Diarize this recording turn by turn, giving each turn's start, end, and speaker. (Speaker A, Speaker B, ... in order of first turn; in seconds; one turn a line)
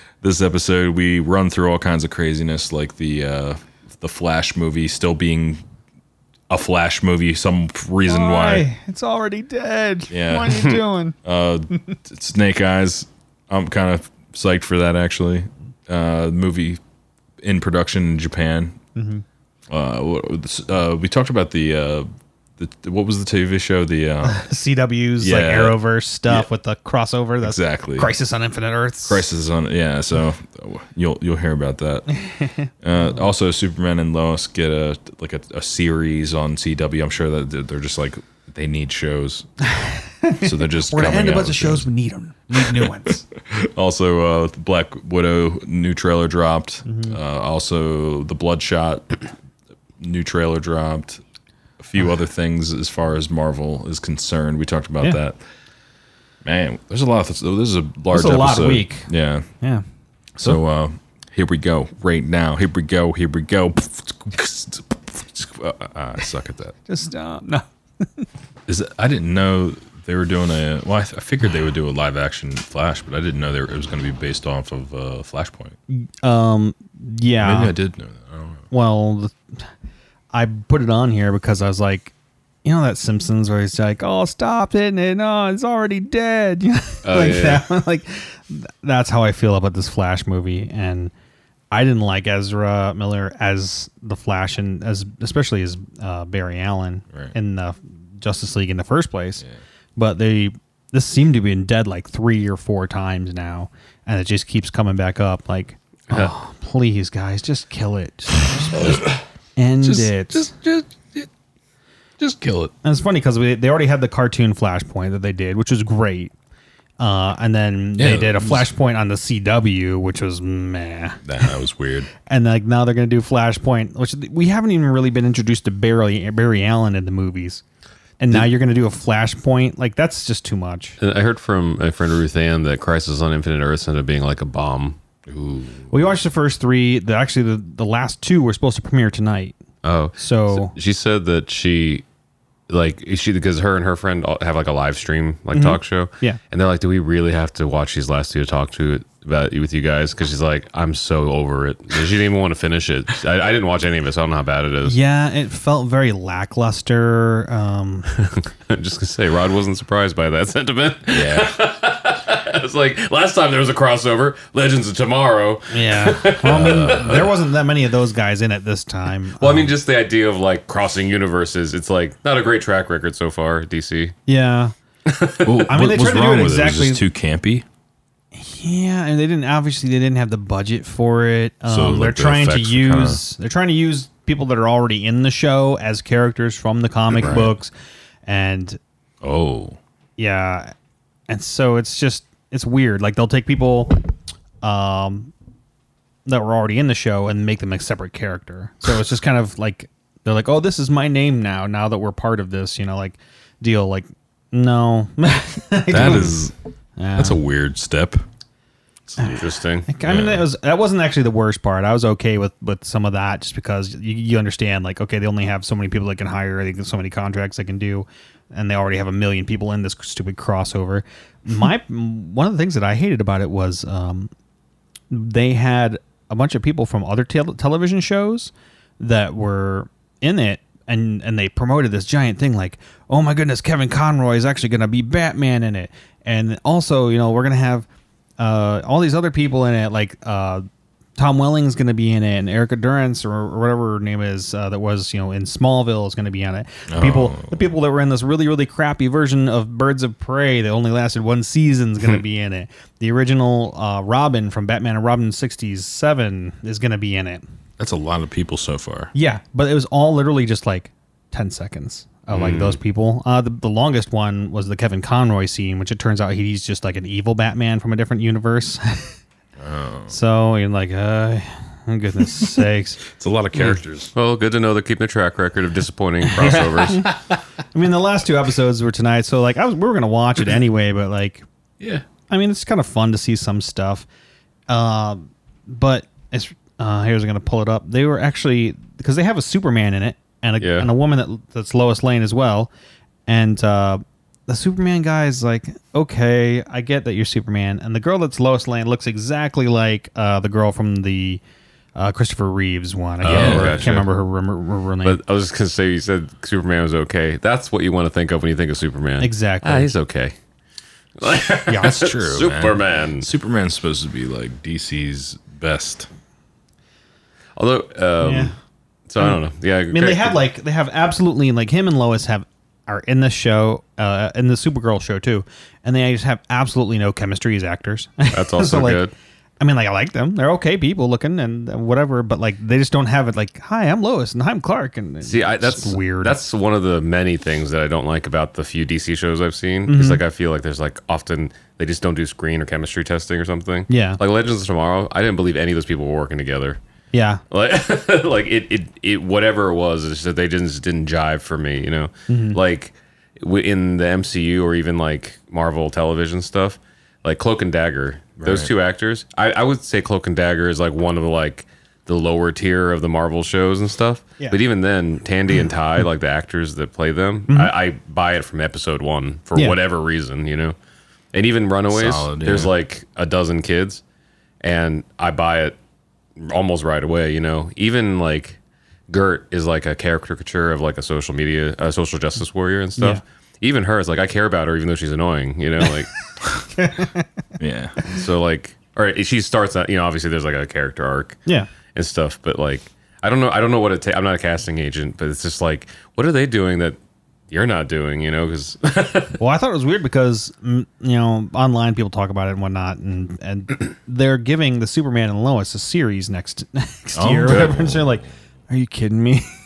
Speaker A: 0.2-5.6
Speaker A: 6.5-8.7
Speaker B: 8.1-11.2
Speaker A: 10.1-10.7
Speaker A: 11.2-16.8
Speaker A: 17.4-18.8
Speaker B: 18.9-19.2
Speaker A: 19.7-24.4
Speaker B: 24.2-29.2
Speaker A: 25.2-26.5
Speaker A: 27.4-28.1
Speaker A: 29.1-32.2
Speaker B: 32.1-32.7
Speaker A: 32.8-39.5
Speaker B: 39.6-43.2
Speaker A: 40.4-41.9
Speaker A: 42.5-49.2
Speaker B: 46.9-47.2
Speaker A: 50.0-51.2
Speaker A: 51.8-55.4
Speaker A: 56.4-59.5
Speaker B: 58.1-59.1
Speaker A: 60.4-66.8
Speaker B: 66.9-68.3
Speaker A: 68.7-75.8
Speaker B: 75.9-77.7
Speaker A: 77.4-78.7
Speaker B: 78.7-79.4
Speaker B: 80.3-91.1
Speaker C: 87.1-87.6
Speaker B: 91.7-99.4
Speaker B: 100.0-110.5
Speaker A: 108.7-109.1
Speaker A: 109.8-111.3
Speaker A: 112.2-112.7
Speaker B: 112.8-116.3
Speaker B: 117.0-121.2
Speaker A: 118.0-118.7
Speaker A: 121.2-122.1
Speaker B: 122.3-127.6
Speaker B: 128.2-131.0
Speaker C: 131.0-135.0
Speaker A: 135.3-135.9
Speaker B: 135.9-139.6
Speaker C: 139.8-142.0
Speaker B: 140.2-140.7
Speaker C: 142.7-155.0
Speaker B: 145.5-146.4
Speaker B: 154.8-158.1
Speaker C: 158.2-167.0
Speaker A: 161.1-161.6
Speaker B: 165.7-169.7
Speaker A: 166.4-167.3
Speaker C: 169.4-174.2
Speaker B: 174.3-174.7
Speaker C: 175.1-175.7
Speaker A: 175.4-177.7
Speaker B: 175.7-177.0
Speaker B: 178.3-187.7
Speaker A: 181.7-183.2
Speaker A: 187.2-187.5
Speaker B: 188.3-188.8
Speaker A: 189.2-189.8
Speaker B: 190.2-190.7
Speaker B: 191.3-194.0
Speaker B: 194.6-195.3
Speaker B: 196.3-206.4
Speaker A: 205.9-206.5
Speaker B: 207.0-207.4
Speaker A: 207.2-208.2
Speaker B: 209.2-224.3
Speaker C: 209.2-209.9
Speaker A: 210.0-210.5
Speaker B: 225.1-237.9
Speaker B: 238.4-240.7
Speaker B: 241.2-257.4
Speaker A: 246.9-247.7
Speaker A: 257.8-259.1
Speaker B: 259.1-269.2
Speaker C: 262.3-262.8
Speaker A: 269.6-270.1
Speaker B: 270.1-273.0
Speaker A: 272.3-274.1
Speaker C: 273.6-277.1
Speaker B: 276.2-277.1
Speaker B: 277.7-281.4
Speaker A: 281.8-282.1
Speaker B: 282.3-284.1
Speaker B: 284.7-292.7
Speaker C: 290.6-290.9
Speaker B: 293.3-301.4
Speaker B: 302.0-305.2
Speaker C: 303.2-304.0
Speaker A: 303.2-304.0
Speaker C: 305.0-310.4
Speaker B: 309.2-309.9
Speaker C: 311.2-313.3
Speaker B: 311.7-312.0
Speaker A: 311.7-316.1
Speaker C: 317.6-318.5
Speaker B: 318.2-318.5
Speaker C: 319.1-320.4
Speaker B: 319.9-329.0
Speaker C: 328.3-329.1
Speaker B: 329.6-336.4
Speaker C: 335.2-346.8
Speaker B: 339.9-340.2
Speaker B: 343.9-344.2
Speaker B: 347.1-347.4
Speaker C: 347.5-370.8
Speaker B: 352.3-352.6
Speaker A: 358.4-358.7
Speaker C: 371.3-374.0
Speaker A: 371.9-372.7
Speaker C: 374.6-375.8
Speaker C: 376.4-378.6
Speaker C: 379.1-386.1
Speaker B: 386.8-387.3
Speaker A: 387.6-388.0
Speaker C: 388.1-391.4
Speaker C: 391.9-397.0
Speaker C: 397.5-399.4
Speaker B: 399.4-409.5
Speaker A: 407.1-408.2
Speaker C: 407.5-407.7